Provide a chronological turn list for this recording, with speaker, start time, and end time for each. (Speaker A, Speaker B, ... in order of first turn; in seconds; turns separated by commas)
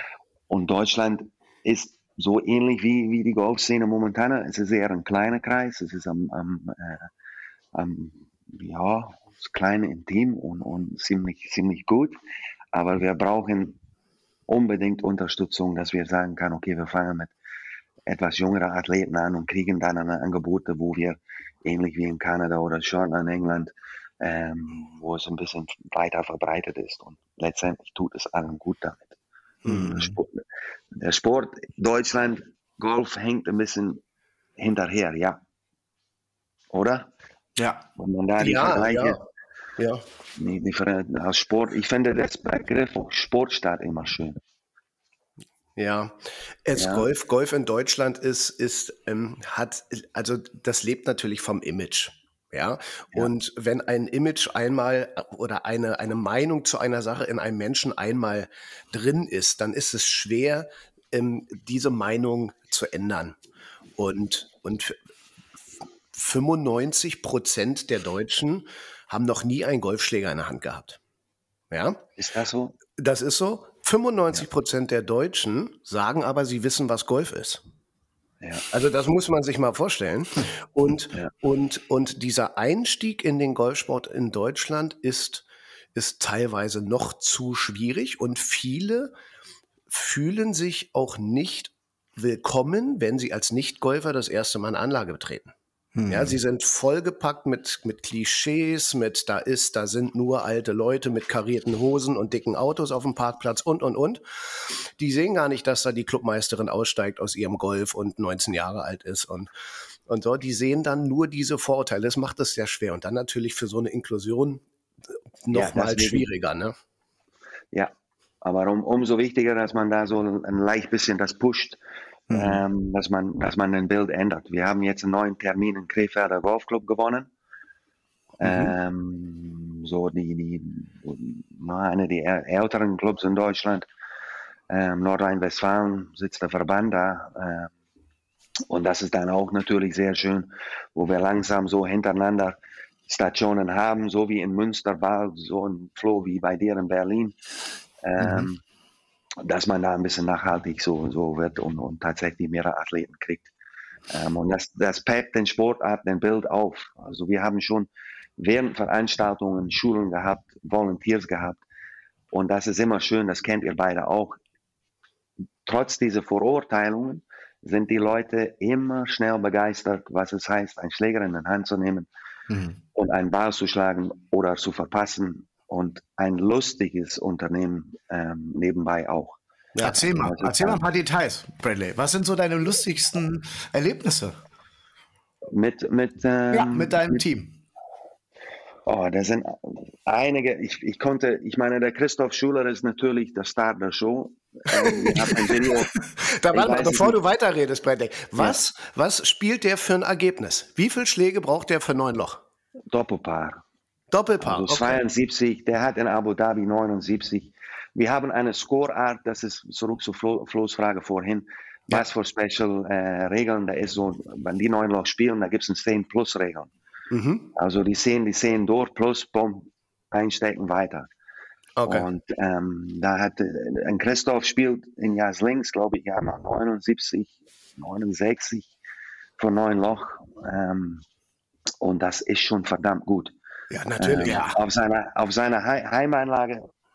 Speaker A: 0.5-7.1, Speaker A: 7.7-12.2, Speaker A: 12.7-13.8, Speaker A: 14.5-17.3, Speaker A: 18.1-29.1, Speaker B: 29.6-29.9, Speaker C: 29.7-30.2, Speaker A: 29.7-30.4, Speaker A: 30.9-34.0, Speaker A: 34.6-35.4, Speaker A: 36.7-37.1, Speaker C: 37.6-37.8, Speaker A: 38.0-39.2, Speaker B: 38.4-39.2, Speaker B: 39.8-40.0, Speaker A: 40.4-44.4, Speaker B: 45.8-63.4, Speaker A: 46.7-47.1, Speaker B: 64.0-65.0, Speaker B: 66.1-71.0, Speaker B: 71.7-72.0, Speaker A: 72.2-72.8, Speaker B: 73.0-77.6, Speaker B: 78.7-89.1, Speaker B: 89.9-95.5, Speaker C: 95.9-96.4, Speaker B: 96.1-109.5, Speaker B: 110.1-114.6, Speaker B: 115.4-116.7, Speaker A: 115.5-116.3, Speaker A: 117.7-121.8, Speaker C: 122.3-122.6, Speaker A: 122.3-127.3, Speaker A: 128.4-133.8, Speaker B: 128.4-128.7, Speaker A: 134.7-137.7, Speaker A: 138.7-142.6, Speaker A: 143.1-147.3, Speaker A: 148.0-148.6, Speaker C: 148.2-148.5, Speaker A: 149.4-153.5, Speaker A: 154.1-161.6, Speaker A: 162.3-164.4, Speaker A: 165.6-172.1, Speaker C: 172.5-172.8, Speaker A: 172.9-180.8, Speaker B: 179.8-180.0, Speaker C: 179.8-184.4, Speaker A: 185.5-187.2, Speaker C: 186.5-187.6, Speaker A: 188.8-195.9, Speaker B: 194.7-195.4, Speaker B: 196.3-202.4, Speaker A: 196.5-197.2, Speaker A: 202.9-203.6, Speaker B: 204.1-205.0, Speaker A: 204.4-216.7, Speaker B: 217.1-217.5, Speaker A: 217.6-221.1, Speaker B: 221.8-222.1, Speaker A: 221.8-228.7, Speaker A: 229.4-231.0, Speaker A: 231.8-233.3, Speaker B: 233.7-234.6, Speaker A: 234.0-236.7